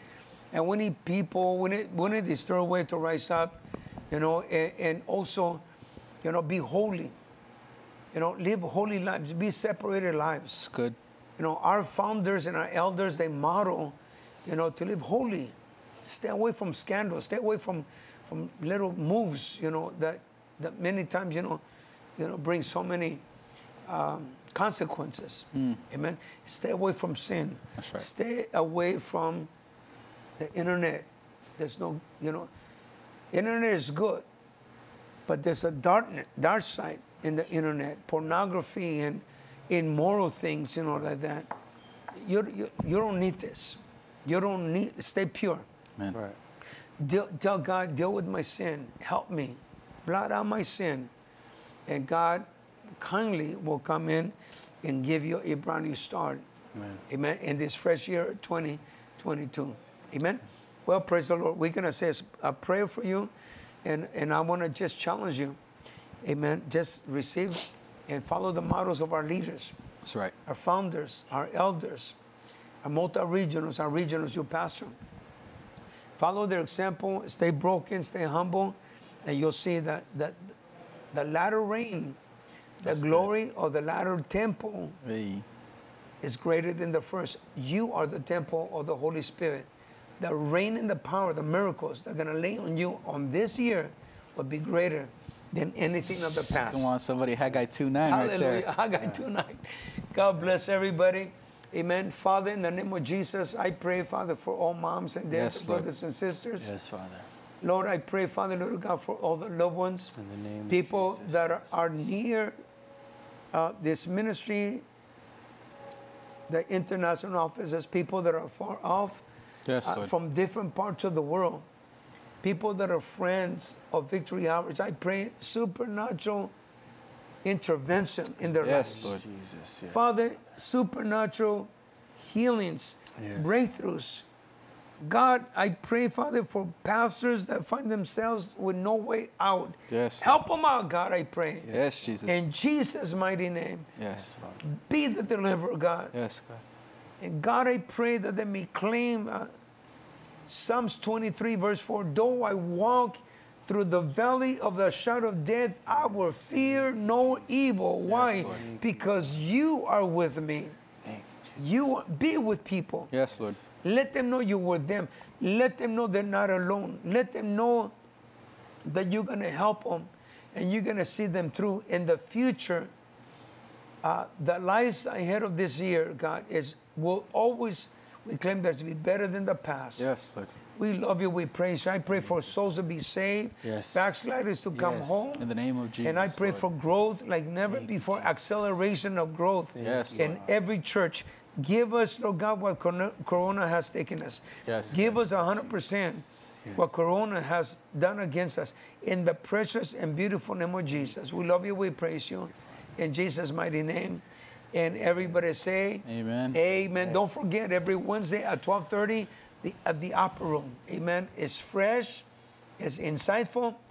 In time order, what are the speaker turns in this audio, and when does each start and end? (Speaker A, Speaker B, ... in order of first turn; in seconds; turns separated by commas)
Speaker A: 0.5-3.6, Speaker A: 4.1-5.6, Speaker A: 6.2-7.1, Speaker A: 8.1-10.6, Speaker B: 10.6-10.9, Speaker A: 11.4-15.5, Speaker A: 16.1-21.6, Speaker A: 22.2-23.2, Speaker A: 23.9-29.5, Speaker B: 25.6-25.8, Speaker B: 27.8-28.1, Speaker A: 30.4-32.5, Speaker A: 33.3-34.2, Speaker A: 35.3-41.5, Speaker A: 42.1-45.6, Speaker A: 47.0-51.1, Speaker A: 51.9-52.5, Speaker A: 53.0-56.4, Speaker A: 57.1-63.3, Speaker A: 63.8-65.6, Speaker A: 66.2-69.7, Speaker B: 70.0-70.3, Speaker A: 70.5-72.1, Speaker A: 72.8-75.0, Speaker A: 76.2-80.5, Speaker A: 81.1-82.2, Speaker A: 82.8-85.0, Speaker B: 82.8-83.3, Speaker B: 85.0-85.4, Speaker A: 86.2-89.7, Speaker A: 90.2-96.9, Speaker B: 96.4-98.6, Speaker A: 98.0-106.7, Speaker B: 105.3-105.9, Speaker C: 106.6-107.3, Speaker A: 107.6-110.1, Speaker C: 110.2-111.7, Speaker A: 110.7-112.6, Speaker A: 113.5-114.8, Speaker A: 116.5-119.2, Speaker B: 119.7-120.1, Speaker A: 119.8-121.7, Speaker A: 122.4-126.5, Speaker A: 127.4-129.1, Speaker B: 128.6-129.2, Speaker C: 128.8-130.1, Speaker A: 129.9-134.2, Speaker C: 133.2-133.5, Speaker A: 135.0-141.7, Speaker B: 139.9-140.4, Speaker C: 141.7-142.1, Speaker B: 141.7-142.4, Speaker A: 142.2-143.9, Speaker B: 144.0-144.3, Speaker C: 144.2-144.6, Speaker A: 144.6-146.1, Speaker B: 146.1-146.6, Speaker A: 147.2-149.5, Speaker A: 150.4-160.8, Speaker C: 156.5-157.3, Speaker B: 158.1-158.7, Speaker C: 158.4-159.1, Speaker C: 161.1-161.6, Speaker A: 161.6-163.1, Speaker B: 163.1-163.6, Speaker A: 163.8-167.9, Speaker A: 168.8-172.9, Speaker A: 174.0-180.1, Speaker B: 180.0-180.5, Speaker A: 180.8-185.5, Speaker C: 183.6-184.2, Speaker C: 184.7-185.2, Speaker B: 185.4-186.6, Speaker A: 186.0-212.2, Speaker C: 187.7-188.7, Speaker C: 189.8-190.5, Speaker B: 189.8-190.3, Speaker B: 194.7-195.2, Speaker B: 206.1-206.6, Speaker A: 212.8-213.8